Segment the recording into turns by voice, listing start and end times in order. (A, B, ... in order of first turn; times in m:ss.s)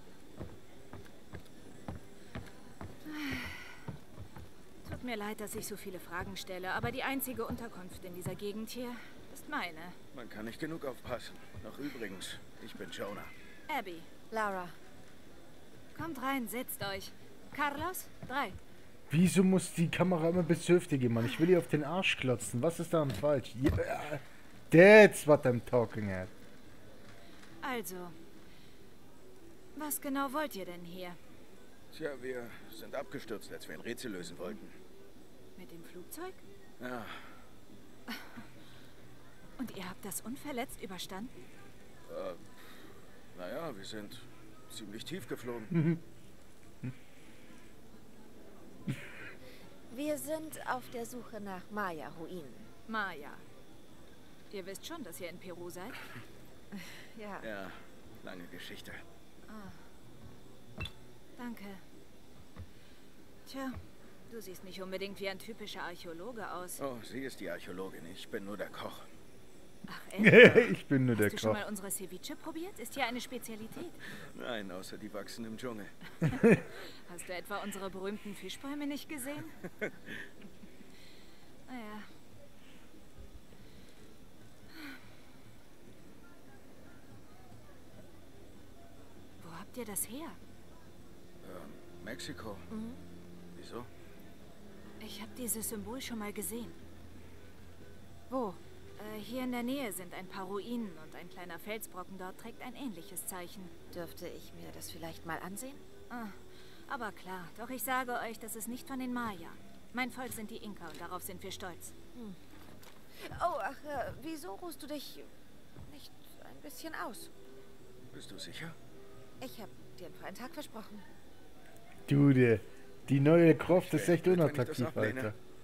0:03.0-0:03.7 A
0:04.8-0:10.0 A
0:10.1-0:13.3 B
0:13.7-0:14.1 A
0:14.3-0:14.8 C
0:15.9-0:18.6 A
0:19.1-0:26.3 D
0:27.6-0:28.1 A
0:29.7-0:31.2 A
0:31.9-0:34.7 B
0:35.6-0:36.4 A
0:36.8-0:37.2 B
0:39.6-0:41.3 A
0:42.1-0:42.7 B
0:43.3-0:45.7 B
0:45.7-0:46.0 D
0:49.9-0:52.7 C
0:52.9-0:53.4 A
0:54.5-0:56.1 A
0:56.8-0:57.4 C
0:57.4-0:59.0 B
0:59.5-0:59.8 A
1:01.4-1:01.8 A
1:03.5-1:03.8 A
1:04.3-1:06.8 A
1:06.8-1:09.0 B
1:09.9-1:14.0 A
1:10.2-1:11.6 D
1:14.3-1:15.9 B
1:17.1-1:19.5 A
1:21.7-1:22.1 A
1:29.4-1:30.4 A
1:31.4-1:32.7 B
1:32.7-1:33.0 C
1:33.6-1:33.9 B
1:35.0-1:36.8 A
1:38.3-1:38.6 C
1:39.0-1:43.7 A
1:43.9-1:45.8 C
1:46.1-1:51.9 A
1:53.1-1:55.3 C
1:55.8-1:57.3 C
1:58.1-1:58.8 B
1:59.4-2:01.1 C
2:02.1-2:05.3 D
2:03.7-2:05.3 B